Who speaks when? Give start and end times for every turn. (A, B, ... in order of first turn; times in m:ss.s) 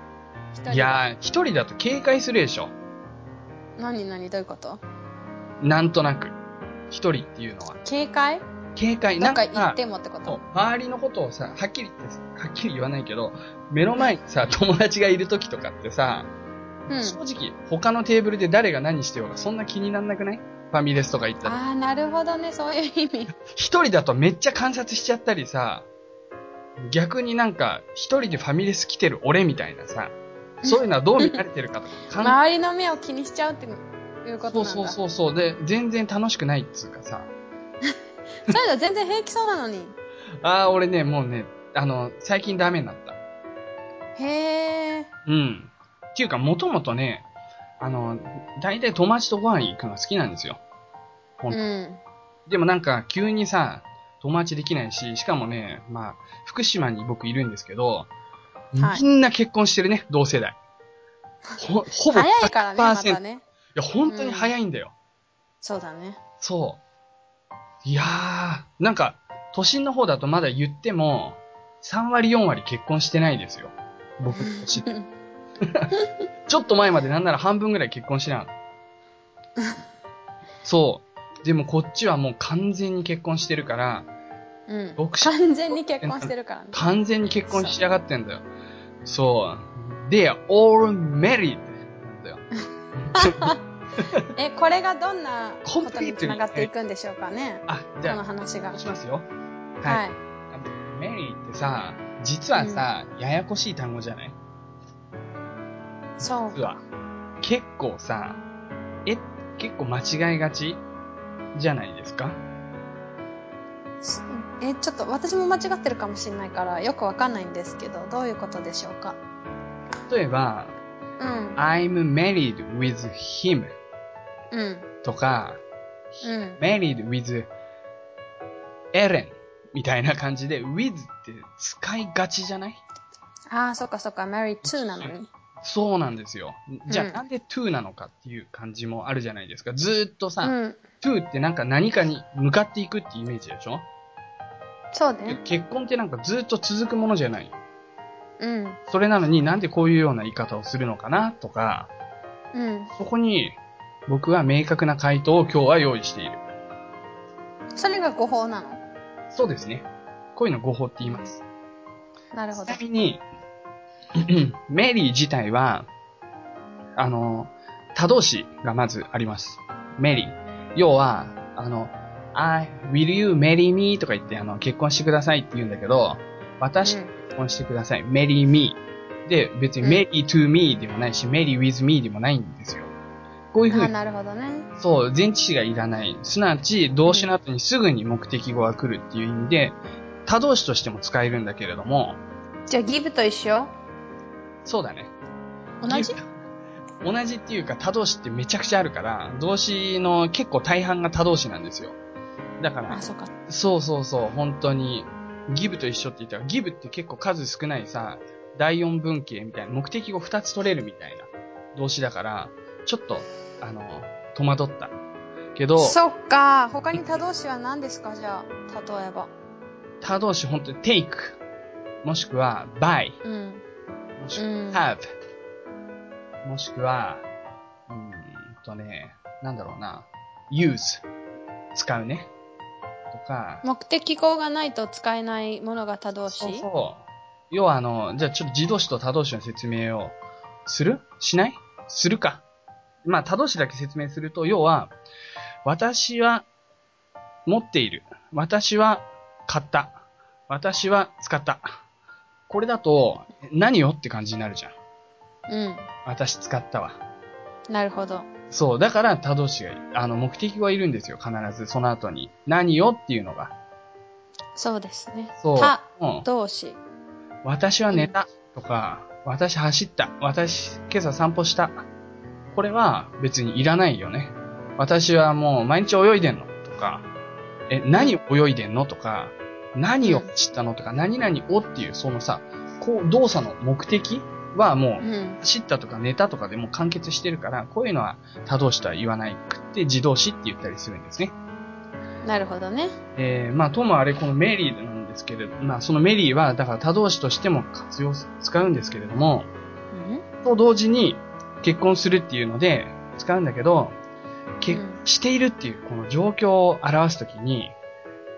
0:00.5-0:01.0 A
0:00.7-0:02.7 B
0:03.8-0:04.8 A
0:05.6-0:06.3 B
0:06.9-0:07.8 B
0:07.8-0:08.4 A
0:08.8-0:16.3 B
0:09.2-0:10.4 A
0:16.9-0:21.6 B
0:16.9-0:17.2 A
0:21.4-0:23.3 A
0:23.5-0:25.9 B
0:26.8-0:30.1 B
0:30.6-0:31.4 A
0:30.6-0:32.4 B
0:32.2-0:35.0 A
0:34.5-0:37.3 B
0:38.4-0:39.9 A
0:40.4-0:43.2 B
0:44.2-0:45.1 A
0:45.2-0:47.2 B
0:47.8-0:50.6 B
0:51.5-0:52.0 A
0:52.5-0:58.1 B
0:58.7-1:00.6 B
0:58.8-0:59.0 A
1:01.6-1:03.2 B
1:02.1-1:03.4 A
1:03.7-1:04.9 B
1:04.1-1:04.5 A
1:05.6-1:06.2 A
1:06.4-1:06.8 B
1:07.8-1:14.9 B
1:14.3-1:15.1 A
1:15.6-1:15.9 B
1:16.5-1:18.5 B
1:20.6-1:24.1 B
1:24.7-1:26.8 A
1:25.0-1:28.4 B
1:27.5-1:27.8 A
1:29.0-1:32.4 B
1:32.9-1:34.2 B
1:33.1-1:33.6 A
1:34.2-1:38.8 A
1:35.6-1:36.7 B
1:37.7-1:38.2 B
1:38.7-1:39.3 B
1:39.8-1:44.4 B
1:39.8-1:40.2 A
1:42.6-1:42.8 A
1:46.2-1:46.7 A
1:46.2-1:46.8 B
1:47.4-1:48.4 B
1:49.0-1:50.8 B
1:51.5-1:52.4 B
1:54.0-1:59.2 A
2:00.1-2:00.7 B
2:01.2-2:01.6 A
2:01.6-2:03.7 B
2:04.5-2:04.9 A
2:05.0-2:05.6 B
2:06.2-2:06.6 A
2:06.6-2:07.5 B
2:08.9-2:12.8 B
2:13.5-2:15.3 A
2:14.6-2:23.8 B
2:16.9-2:17.2 A
2:20.4-2:20.8 A
2:24.9-2:25.4 A
2:25.2-2:27.5 B
2:28.4-2:28.8 A
2:28.9-2:31.9 B
2:32.5-2:32.9 A
2:33.0-2:36.4 B
2:37.8-2:38.8 A
2:39.3-2:41.4 B
2:42.3-2:42.8 A
2:42.6-2:43.2 B
2:44.2-2:45.9 B
2:47.0-3:02.9 B
2:56.8-2:57.1 A
3:03.5-3:03.9 B
3:03.7-3:04.7 A
3:04.8-3:12.2 B
3:12.7-3:13.7 A
3:14.6-3:15.1 B
3:15.8-3:16.2 A
3:15.9-3:16.2 B
3:17.0-3:22.0 B
3:22.6-3:34.9 B
3:22.9-3:23.3 A
3:35.5-3:36.0 B
3:35.8-3:39.3 A
3:40.0-3:41.4 B
3:42.0-3:43.2 B
3:43.2-3:43.6 A
3:44.2-3:45.1 B
3:44.4-3:44.8 A
3:46.4-3:47.2 B
3:47.9-3:51.0 B
3:51.7-3:52.3 B
3:53.1-3:53.6 B
3:53.6-3:56.6 A
3:56.3-4:02.4 B
4:03.0-4:04.9 B
4:05.6-4:06.4 B
4:07.4-4:10.0 B
4:10.5-4:11.7 B
4:12.5-4:14.7 B
4:15.5-4:15.9 A
4:16.0-4:17.0 B
4:17.7-4:18.2 A
4:18.5-4:23.5 B
4:24.6-4:26.8 A
4:25.4-4:26.2 B
4:27.4-4:31.8 B
4:32.5-4:37.0 B
4:37.7-4:51.3 B
4:40.0-4:40.3 A
4:45.0-4:45.4 A
4:52.2-4:52.9 A
4:53.2-4:59.5 B
4:59.9-5:00.2 A
5:00.4-5:03.9 B
5:04.6-5:07.7 B
5:04.7-5:05.0 A